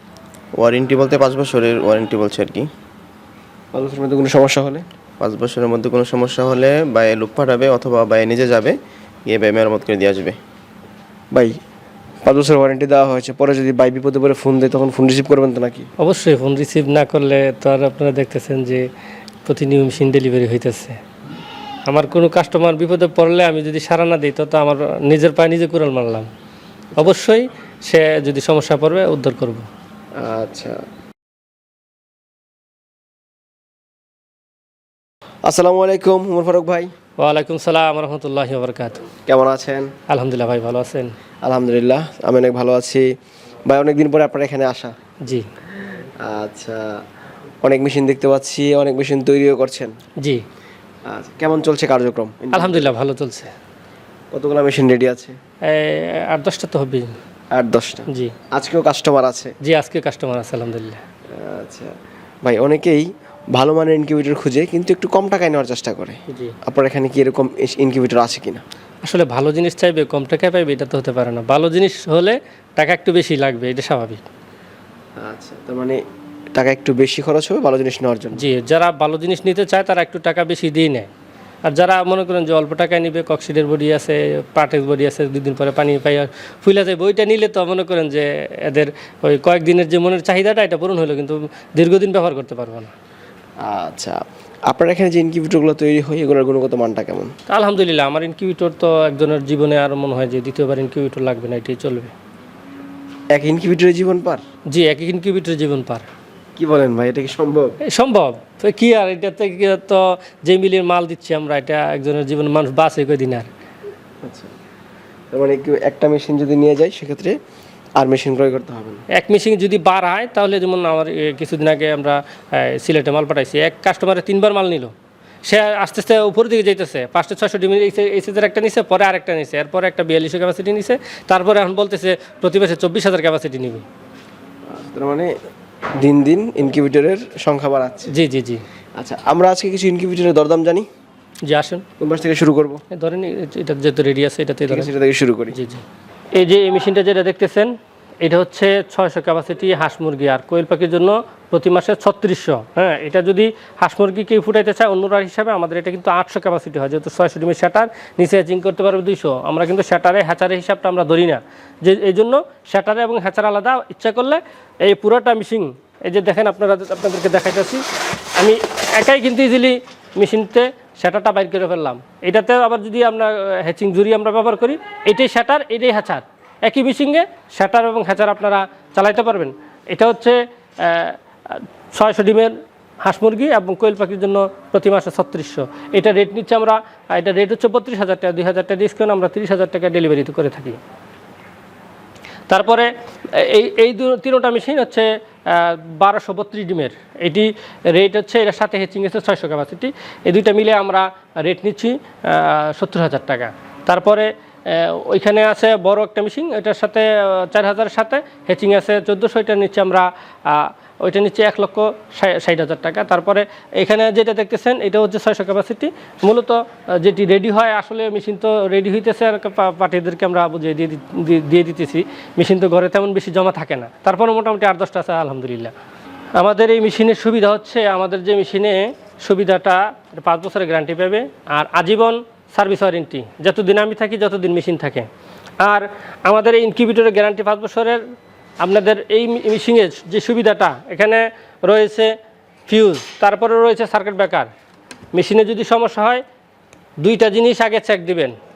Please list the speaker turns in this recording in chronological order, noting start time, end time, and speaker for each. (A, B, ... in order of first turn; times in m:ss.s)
0:00.6-0:02.7 A
0:03.7-0:04.8 B
0:05.2-0:10.4 A
0:11.3-0:11.6 B
0:12.2-0:15.9 B
0:16.0-0:18.8 C
0:19.4-0:21.0 C
0:21.9-0:26.3 C
0:27.0-0:29.7 C
0:30.2-0:30.8 B
0:35.4-0:36.9 B
0:37.2-0:39.0 C
0:39.2-0:39.9 B
0:40.1-0:41.1 C
0:41.4-0:43.1 B
0:43.7-0:44.9 B
0:46.2-0:46.9 B
0:47.6-0:50.0 B
0:51.1-0:52.9 B
0:52.5-0:53.5 C
0:54.3-0:55.4 B
0:55.7-0:57.1 C
0:57.5-0:59.5 B
0:59.6-1:01.0 C
1:01.3-1:01.9 B
1:02.4-1:08.6 B
1:09.0-1:14.2 C
1:15.2-1:16.0 B
1:16.5-1:18.4 B
1:18.4-1:21.1 C
1:21.7-1:32.9 C
1:33.6-1:37.3 B
1:37.5-1:42.1 C
1:43.3-1:44.4 B
1:44.7-1:46.0 C
1:46.6-1:47.8 B
1:47.9-1:53.5 C
1:54.2-1:54.5 B
1:55.3-1:57.4 B
1:58.0-1:59.0 B
1:59.1-2:04.9 C
2:05.4-2:13.8 C
2:14.7-2:15.3 B
2:16.0-2:18.1 B
2:18.1-2:18.6 C
2:19.0-2:20.9 B
2:21.4-2:21.8 C
2:22.0-2:22.8 B
2:22.9-2:24.9 C
2:24.7-2:25.6 B
2:25.5-2:25.8 C
2:26.3-2:27.7 C
2:28.2-2:47.8 C
2:48.4-3:10.8 C
3:12.5-3:45.7 C
3:46.4-3:55.1 C
3:55.6-3:58.0 C
3:58.6-4:02.2 C
4:02.7-4:04.5 C
4:05.1-4:06.2 C
4:07.0-4:08.3 C